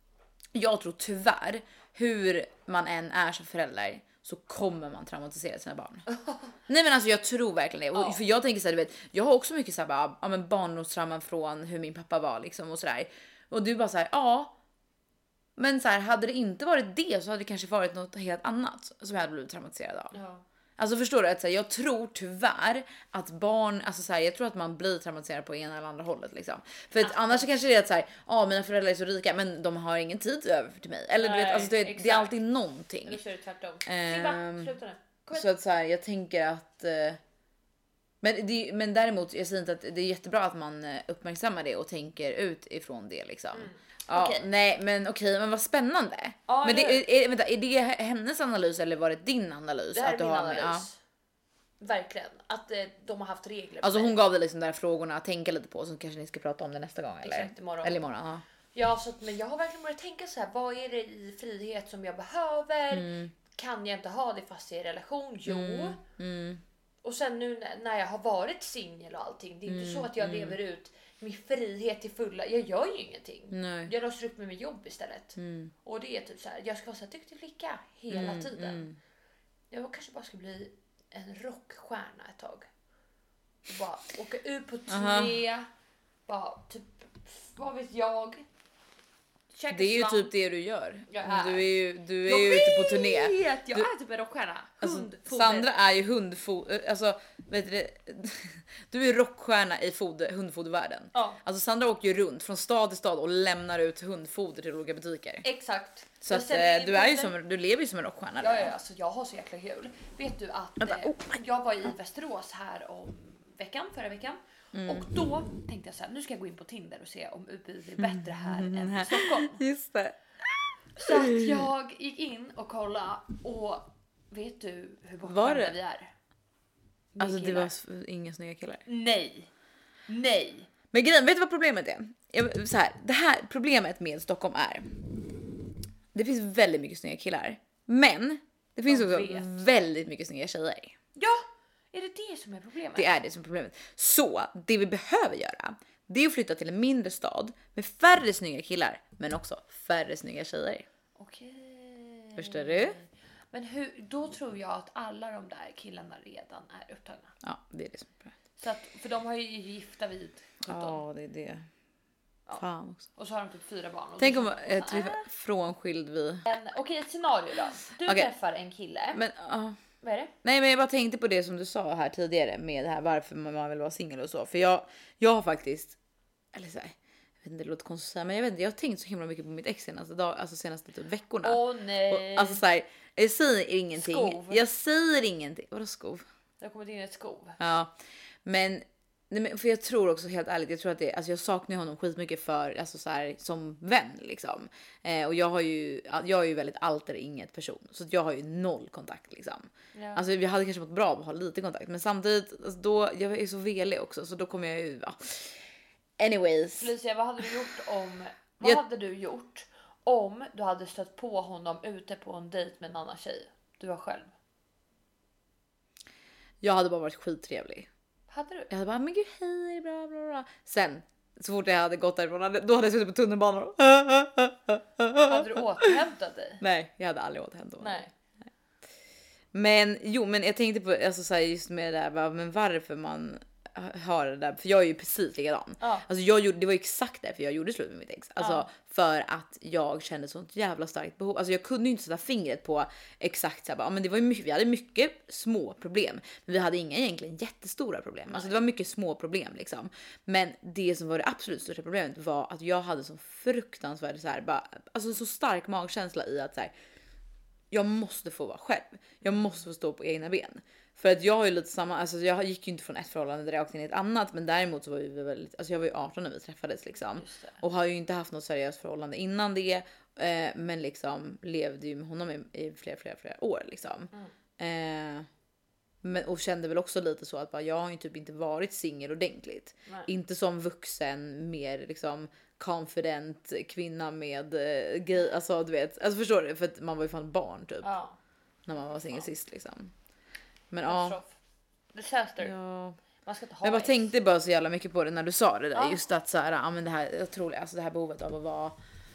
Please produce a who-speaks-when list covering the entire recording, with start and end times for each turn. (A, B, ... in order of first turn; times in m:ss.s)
0:00.5-0:06.1 A
0:06.1-0:06.5 B
0:06.7-0:14.5 A
0:07.9-0:08.2 B
0:15.6-0:20.2 A
0:20.1-0:20.4 B
0:20.8-0:33.2 A
0:27.0-0:27.6 B
0:31.2-0:32.4 B
0:33.0-0:35.5 B
0:33.9-0:34.7 A
0:35.3-0:37.2 A
0:38.2-0:50.9 A
0:43.5-0:44.5 B
0:46.5-0:47.0 B
0:49.9-0:51.0 B
0:51.8-0:54.2 B
0:53.8-0:58.4 A
0:57.2-0:58.1 B
0:58.7-1:06.0 B
1:02.9-1:03.3 A
1:05.5-1:06.6 A
1:07.0-1:18.9 B
1:09.7-1:10.6 A
1:13.5-1:13.9 A
1:15.4-1:15.7 A
1:18.1-1:19.0 A
1:19.7-1:22.7 B
1:23.7-1:25.7 B
1:24.9-1:25.4 A
1:26.3-1:28.4 B
1:29.5-1:30.3 B
1:29.7-1:33.9 A
1:31.1-1:35.7 B
1:34.8-1:45.4 A
1:41.1-1:41.4 B
1:45.4-1:47.3 B
1:46.2-1:48.7 A
1:48.4-1:59.6 B
1:50.8-1:51.3 A
1:54.7-1:55.1 A
1:58.0-2:00.2 A
2:01.0-2:06.1 B
2:01.0-2:01.7 A
2:05.2-2:05.8 A
2:07.2-2:07.7 B
2:07.2-2:08.8 A
2:08.9-2:09.5 B
2:10.1-2:10.7 B
2:10.9-2:15.0 A
2:16.1-2:20.9 A
2:18.9-2:19.6 B
2:21.2-2:23.1 B
2:23.0-2:30.9 A
2:31.2-2:37.3 B
2:32.4-2:33.0 A
2:37.4-2:38.3 A
2:38.6-2:41.0 B
2:40.6-2:41.6 A
2:42.6-2:43.1 A
2:43.2-2:45.3 B
2:44.2-2:46.5 A
2:46.5-2:49.2 B
2:48.0-2:48.3 A
2:49.1-2:49.8 A
2:50.0-2:50.3 B
2:50.4-2:56.0 A
2:56.5-3:06.3 A
3:01.4-3:02.6 B
3:04.0-3:04.6 B
3:06.6-3:07.6 B
3:07.6-3:07.9 A
3:08.4-3:25.6 A
3:19.9-3:20.2 B
3:26.2-3:26.9 A
3:26.8-3:34.3 B
3:36.6-3:37.9 A
3:38.3-3:38.7 B
3:38.7-3:46.0 A
3:45.3-3:46.6 B
3:46.6-3:48.0 A
3:47.8-3:48.1 B
3:49.5-4:16.7 A
3:55.8-3:56.1 B
3:58.4-3:58.7 B
4:17.7-4:35.3 A
4:27.1-4:27.6 B
4:36.0-4:47.9 A
4:47.8-4:48.2 B
4:48.7-4:49.9 A
4:50.7-4:51.2 A
4:50.8-4:51.4 B
4:51.9-4:52.6 B
4:52.4-4:53.0 A
4:53.2-4:54.1 B
4:53.6-4:58.8 A
4:55.7-4:56.0 B